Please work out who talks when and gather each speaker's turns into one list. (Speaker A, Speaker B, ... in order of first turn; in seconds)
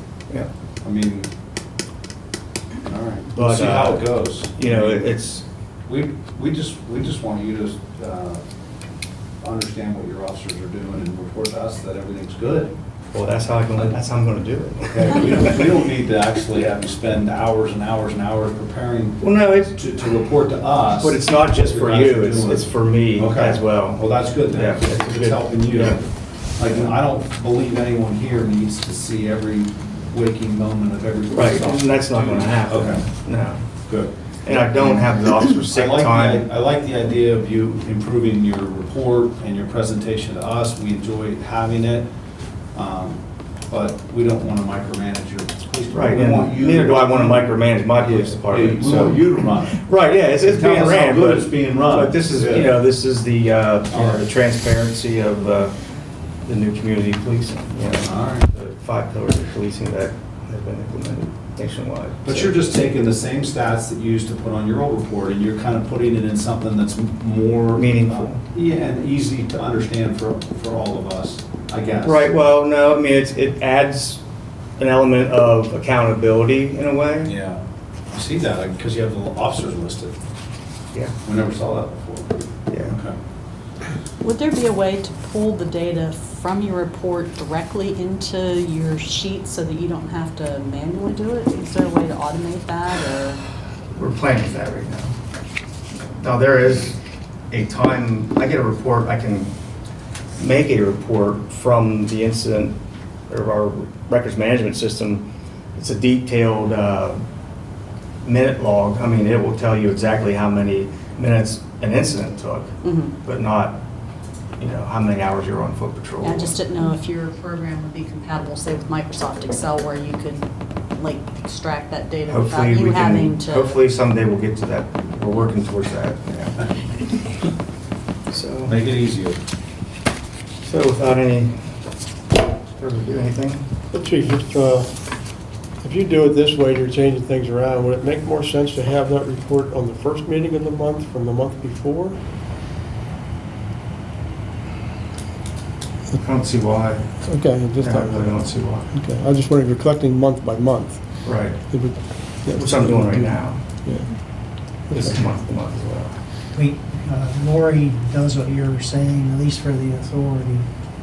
Speaker A: 0.8-1.3, 2.8-5.1, 5.9-8.4, 9.4-12.7, 14.8-33.0, 33.9-35.0, 35.7-42.1, 42.7-49.8, 50.4-52.8, 53.9-54.2, 58.0-58.5, 62.2-72.3, 77.2-77.6, 78.1-80.1, 81.2-83.2, 128.7-129.4
Speaker B: 3.3-5.4, 13.1-15.7, 19.2-19.8, 20.9-26.0, 26.6-27.0, 31.3-33.6, 34.5-36.5, 45.9-55.7, 56.5-62.5, 67.8-68.4, 72.0-74.2, 74.8-77.3, 82.7-83.0, 94.0-95.1, 95.9-97.0, 97.5-99.5, 100.4-102.8, 103.3-107.2, 108.2-112.7, 113.2-113.8, 114.6-116.6, 122.2-127.3, 128.3-128.8, 130.6-131.6, 132.8-133.7, 146.2-147.2, 147.8-148.9, 151.2-153.6, 154.9-156.2
Speaker C: 84.2-93.4, 112.8-113.1, 116.2-123.8
Speaker D: 133.9-142.2, 147.2-155.2
Speaker E: 156.5-160.7